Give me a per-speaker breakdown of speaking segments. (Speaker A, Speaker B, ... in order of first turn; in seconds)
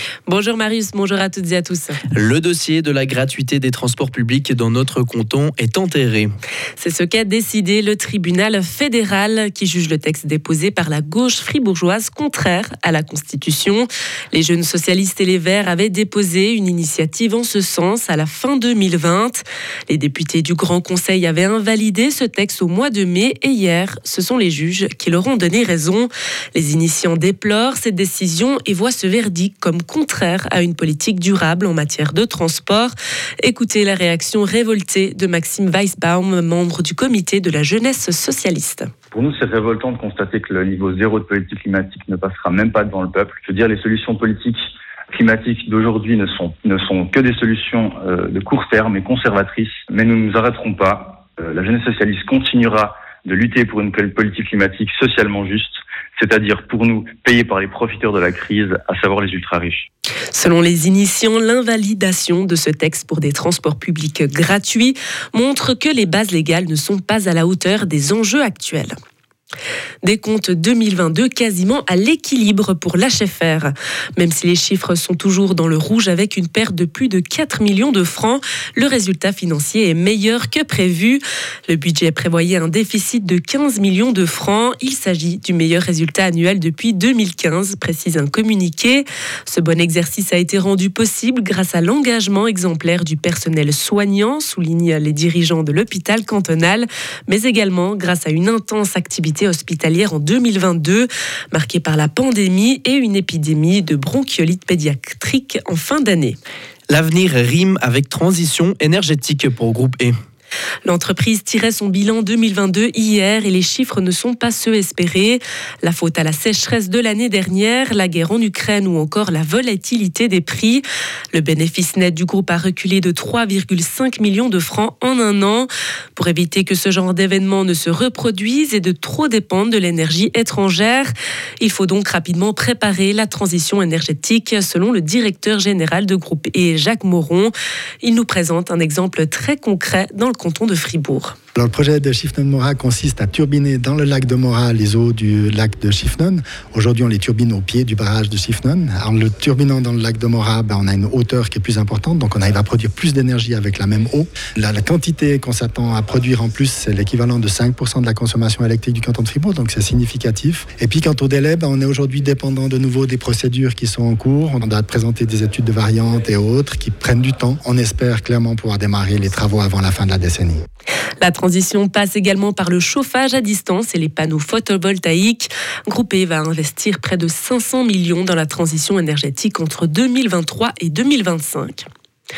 Speaker A: 0.3-2.0, 6.8-38.9, 60.3-68.9, 70.0-106.4, 110.9-141.3, 171.2-181.8
Speaker B: 2.1-6.3, 106.9-110.1
Speaker C: 39.1-44.6, 45.1-59.8
Speaker D: 141.5-170.6